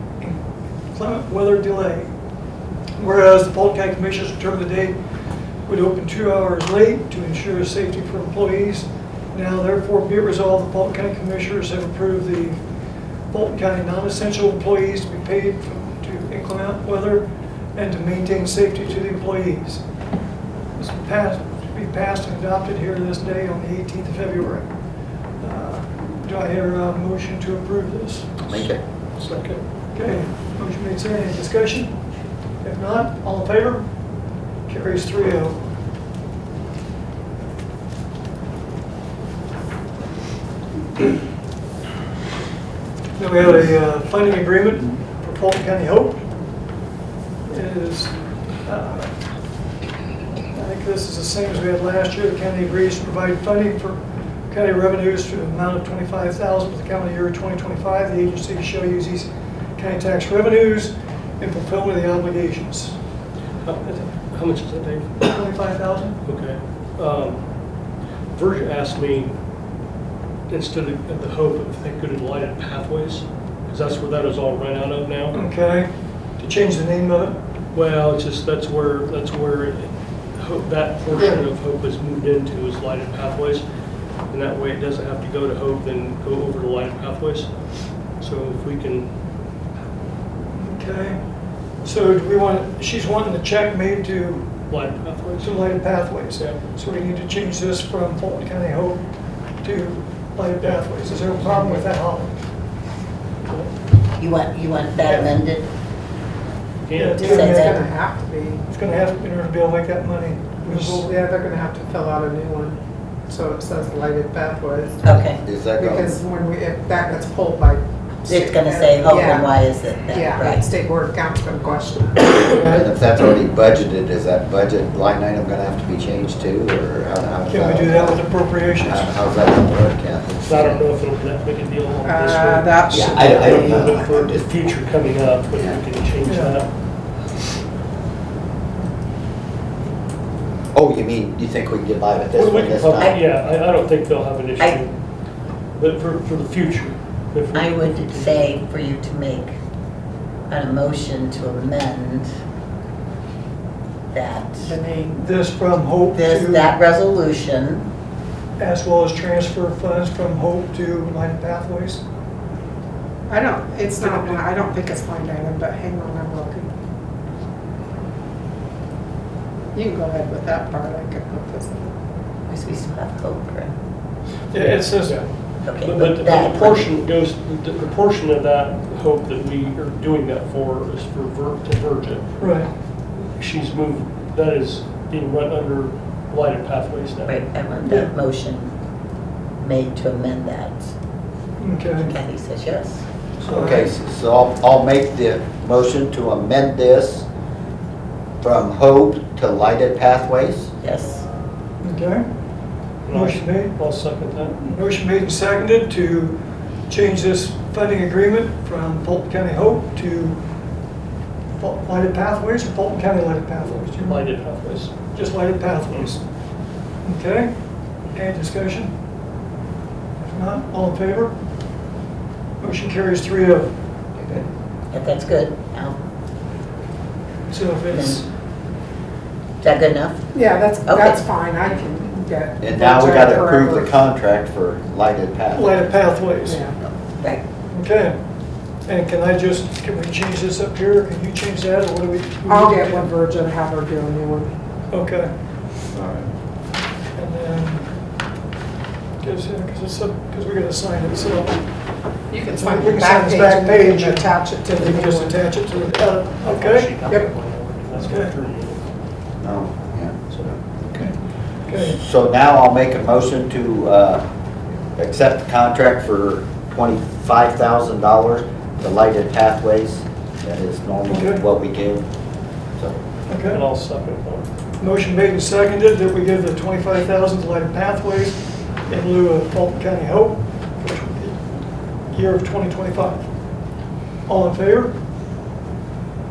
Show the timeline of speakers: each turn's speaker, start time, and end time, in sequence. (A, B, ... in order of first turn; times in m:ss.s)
0:00.2-0:02.1 A
0:03.0-0:05.0 A
0:05.6-0:12.6 A
0:13.3-0:19.8 A
0:20.8-0:24.8 A
0:25.4-0:28.7 A
0:28.5-0:28.8 B
0:29.2-0:29.6 C
0:29.9-0:32.1 A
0:32.6-0:35.6 A
0:43.2-0:46.2 A
0:47.5-0:49.1 A
0:50.5-1:03.0 A
1:03.6-1:05.3 C
1:05.2-1:06.2 A
1:06.2-1:09.4 C
1:10.5-1:15.4 C
1:15.3-1:17.4 A
1:17.7-1:23.6 C
1:21.1-1:21.4 A
1:24.3-1:29.1 C
1:30.4-1:34.6 A
1:34.7-1:35.7 C
1:35.4-1:42.5 A
1:36.3-1:36.6 C
1:44.2-1:45.7 D
1:45.1-1:45.3 A
1:46.8-1:47.2 C
1:47.0-1:47.8 A
1:47.2-1:47.8 D
1:47.2-1:48.6 E
1:48.7-1:51.2 A
1:50.6-2:02.7 E
1:55.0-1:55.4 D
1:55.4-1:56.2 B
1:58.3-2:00.7 D
2:02.6-2:02.9 A
2:02.6-2:10.8 B
2:07.5-2:09.2 A
2:10.4-2:17.1 C
2:12.0-2:14.1 E
2:12.9-2:14.5 B
2:15.5-2:15.8 B
2:16.2-2:16.6 A
2:20.7-2:23.1 B
2:22.3-2:28.5 C
2:27.5-2:29.5 D
2:30.5-2:32.3 D
2:34.1-2:34.8 D
2:34.6-2:35.2 E
2:35.1-2:36.7 A
2:36.1-2:37.9 D
2:38.6-2:42.0 A
2:43.3-2:46.7 E
2:44.0-2:44.4 A
2:49.7-2:52.0 E
2:52.5-2:53.7 D
2:54.5-2:55.2 A
2:54.5-3:07.5 C
2:55.6-2:56.9 D
3:02.4-3:02.7 A
3:07.2-3:08.7 D
3:07.8-3:08.1 A
3:09.6-3:10.9 D
3:11.6-3:12.1 A
3:12.0-3:13.0 D
3:13.4-3:17.3 B
3:13.5-3:13.9 A
3:18.4-3:20.7 B
3:20.8-3:21.2 D
3:21.8-3:22.3 A
3:23.0-3:24.6 C
3:23.1-3:23.8 A
3:24.5-3:30.4 A
3:31.6-3:36.2 A
3:33.6-3:35.0 C
3:37.0-3:37.6 A
3:38.1-3:39.0 A
3:40.2-3:41.3 A
3:42.6-3:44.4 A
3:44.9-3:46.0 D
3:47.5-3:48.2 A
3:47.9-3:48.2 D
3:49.6-3:50.3 D
3:50.3-3:54.0 E
3:50.8-3:51.2 D
3:52.6-3:56.0 B
3:55.5-3:56.6 A
3:56.4-3:56.8 E
3:57.7-3:58.2 A
3:58.8-4:03.1 A
4:02.5-4:04.5 E
4:04.9-4:06.3 A
4:07.1-4:07.9 A
4:09.2-4:11.8 A
4:12.3-4:15.4 E
4:12.5-4:16.9 A
4:16.4-4:18.9 C
4:17.9-4:18.3 A
4:19.4-4:20.3 B
4:20.3-4:20.6 C
4:20.9-4:22.0 A
4:21.7-4:24.2 B
4:24.9-4:32.1 B
4:31.1-4:31.4 A
4:33.3-4:33.6 A
4:33.5-4:34.5 C
4:34.8-4:43.3 A
4:44.2-4:44.9 A